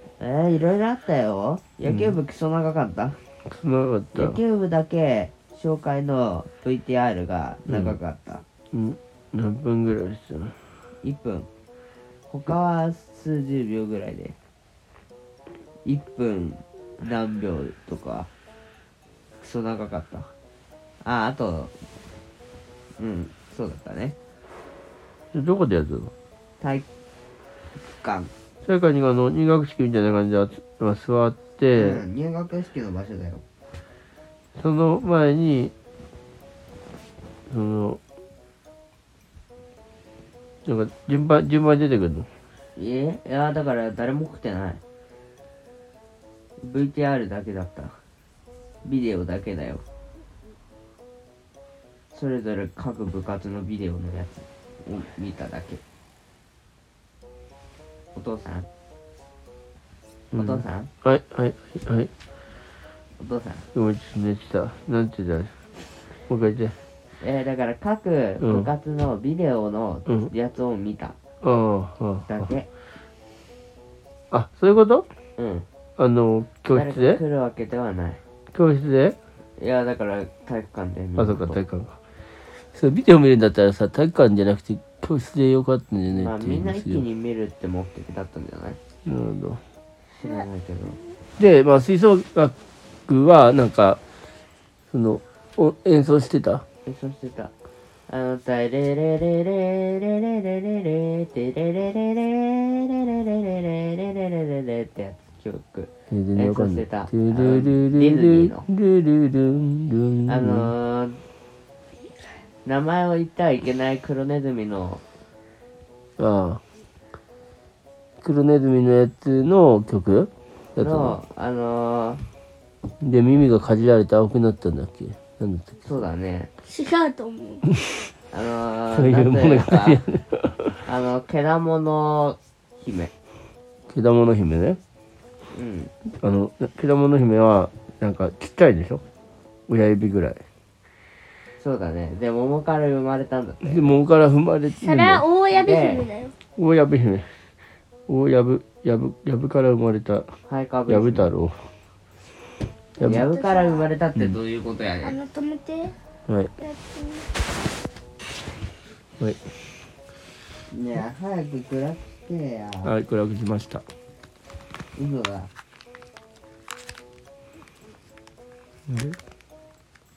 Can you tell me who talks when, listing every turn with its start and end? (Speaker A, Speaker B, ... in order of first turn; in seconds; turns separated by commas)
Speaker A: 0.2-3.2, Speaker B: 1.9-2.2, Speaker B: 3.5-4.4, Speaker A: 4.1-8.4, Speaker B: 7.7-8.0, Speaker B: 8.7-10.6, Speaker A: 11.0-11.5, Speaker A: 12.3-14.4, Speaker A: 15.8-18.3, Speaker A: 19.4-20.3, Speaker A: 21.0-21.7, Speaker A: 23.0-24.2, Speaker B: 25.3-26.1, Speaker A: 26.6-26.9, Speaker A: 27.9-28.3, Speaker B: 28.6-32.0, Speaker A: 31.7-33.4, Speaker B: 34.6-35.7, Speaker B: 37.5-38.0, Speaker B: 40.6-42.3, Speaker A: 42.8-44.8, Speaker A: 46.6-48.0, Speaker A: 48.8-49.8, Speaker A: 52.1-55.8, Speaker A: 58.1-58.7, Speaker B: 60.3-62.1, Speaker A: 60.3-60.9, Speaker A: 63.2-63.7, Speaker B: 63.7-65.5, Speaker B: 66.3-66.8, Speaker A: 67.2-71.2, Speaker B: 68.4-68.7, Speaker B: 71.4-72.5, Speaker A: 72.3-72.7, Speaker B: 74.3-75.1, Speaker A: 75.4-75.7, Speaker B: 76.0-77.2, Speaker A: 76.7-78.2, Speaker B: 78.5-79.2, Speaker A: 79.6-81.6, Speaker B: 81.2-82.0, Speaker B: 82.6-87.0, Speaker A: 86.1-88.8, Speaker B: 89.1-89.6, Speaker A: 90.2-91.0, Speaker B: 91.4-92.5, Speaker B: 93.1-94.0, Speaker B: 94.9-96.6, Speaker A: 96.8-97.5, Speaker A: 98.1-108.7, Speaker B: 106.1-110.7, Speaker A: 110.3-111.2, Speaker A: 112.7-115.0, Speaker B: 116.2-116.6, Speaker B: 118.2-121.2, Speaker A: 120.8-122.2, Speaker B: 123.0-125.8, Speaker A: 125.8-126.5, Speaker C: 126.7-127.7, Speaker B: 127.7-128.0, Speaker A: 128.3-130.0, Speaker B: 128.9-130.8, Speaker A: 130.8-133.1, Speaker B: 133.9-134.8, Speaker A: 135.5-135.9, Speaker B: 136.1-139.0, Speaker B: 139.7-140.4, Speaker A: 141.6-144.0, Speaker B: 143.6-145.2, Speaker C: 144.8-146.3, Speaker A: 145.5-146.1, Speaker B: 146.6-147.4, Speaker B: 148.1-150.3, Speaker A: 150.5-151.3, Speaker B: 150.9-151.7, Speaker C: 153.0-153.9, Speaker A: 153.0-155.2, Speaker C: 155.0-155.9, Speaker C: 156.6-157.3, Speaker A: 160.7-162.9, Speaker B: 162.8-163.8, Speaker A: 165.0-165.5, Speaker B: 168.9-169.2